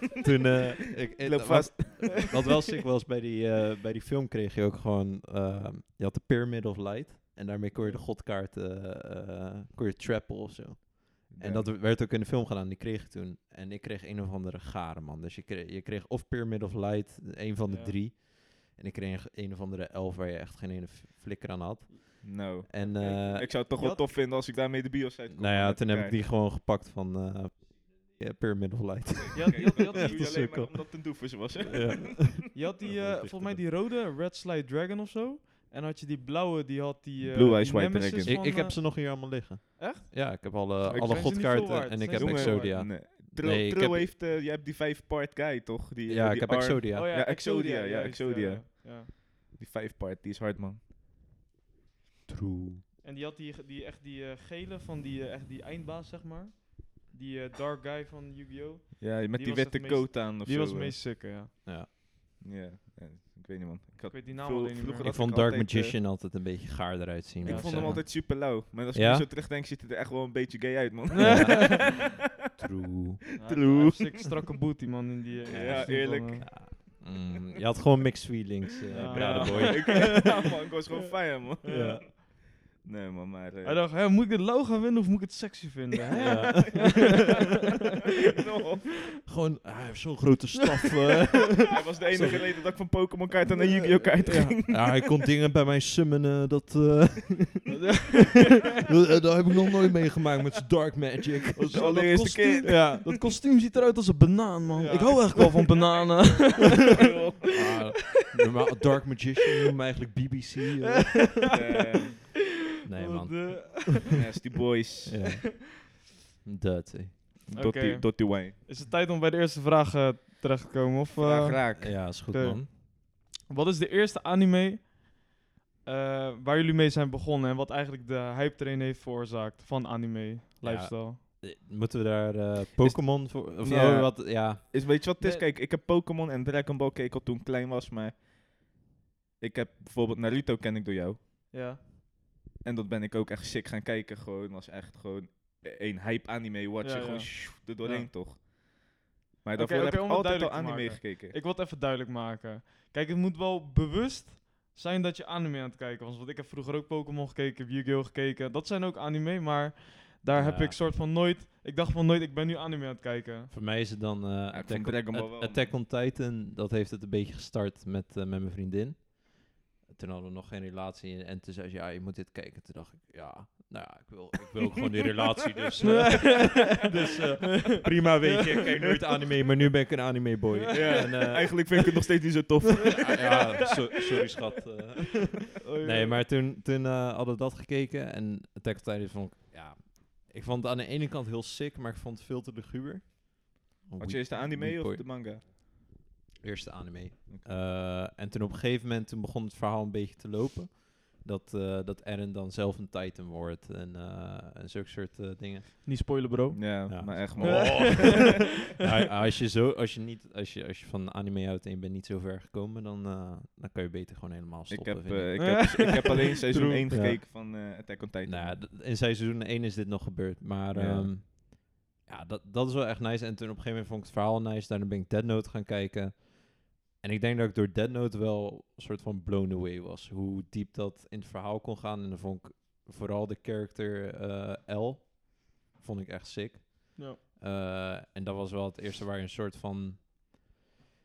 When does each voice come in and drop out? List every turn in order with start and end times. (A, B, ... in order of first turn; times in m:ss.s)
0:00.2-0:23.5 A
0:01.2-0:02.3 B
0:11.3-0:11.7 B
0:17.6-0:18.0 C
0:22.2-0:26.2 B
0:22.7-0:24.1 C
0:25.3-0:33.6 A
0:29.4-0:30.6 C
0:29.5-0:32.4 B
0:32.5-0:42.9 C
0:37.2-0:38.4 B
0:38.2-0:44.1 A
0:40.8-0:50.8 B
0:46.1-0:47.1 A
0:46.9-0:49.1 C
0:52.3-0:52.8 A
0:53.0-1:01.5 C
0:59.0-1:01.0 B
1:02.4-1:06.0 B
1:04.1-1:05.5 C
1:05.0-1:09.2 A
1:07.4-1:12.1 B
1:07.4-1:08.0 C
1:11.2-1:11.9 C
1:11.2-1:13.2 A
1:13.4-1:16.5 C
1:13.4-1:14.4 B
1:15.4-1:17.2 B
1:15.5-1:20.2 A
1:18.9-1:20.3 C
1:19.0-1:23.8 B
1:21.6-1:22.1 C
1:21.6-1:22.0 A
1:23.6-1:27.3 C
1:26.2-1:27.0 A
1:26.5-1:27.1 B
1:28.3-1:29.2 B
1:29.3-1:32.4 A
1:31.7-1:35.0 B
1:32.1-1:32.4 C
1:33.9-1:34.6 C
1:34.6-1:37.9 A
1:37.7-1:38.5 C
1:38.9-1:43.1 A
1:41.6-1:47.0 C
1:41.7-1:42.9 B
1:44.8-1:47.6 B
1:44.9-1:45.7 A
1:47.5-1:51.6 A
1:51.0-1:51.5 C
1:51.5-1:52.2 B
1:52.8-1:53.9 A
1:52.9-1:54.2 C
1:54.1-1:55.1 B
1:55.0-1:55.9 A
1:56.4-1:57.5 A
1:57.5-1:58.6 B
1:57.6-2:05.3 C
2:01.2-2:02.0 B
2:01.8-2:02.7 A
2:05.8-2:11.2 C
2:10.6-2:14.6 A
2:12.8-2:18.2 B
2:15.2-2:15.5 C
2:19.4-2:21.2 B
2:21.5-2:21.8 C
2:22.6-2:28.5 B
2:26.8-2:28.1 C
2:29.4-2:31.4 B
2:29.6-2:43.5 C
2:40.3-2:40.8 A
2:43.5-3:01.7 A
2:44.5-2:45.7 B
2:55.8-2:56.9 C
3:00.7-3:03.4 B
3:02.9-3:15.6 A
3:05.6-3:06.2 C
3:14.0-3:15.4 B
3:16.4-3:25.8 A
3:25.8-3:26.8 C
3:26.5-3:28.2 B
3:26.9-3:35.7 A
3:27.4-3:28.4 C
3:34.7-3:38.6 B
3:35.4-3:36.8 C
3:36.9-3:37.2 A
3:38.2-4:00.1 A
3:40.7-3:41.1 B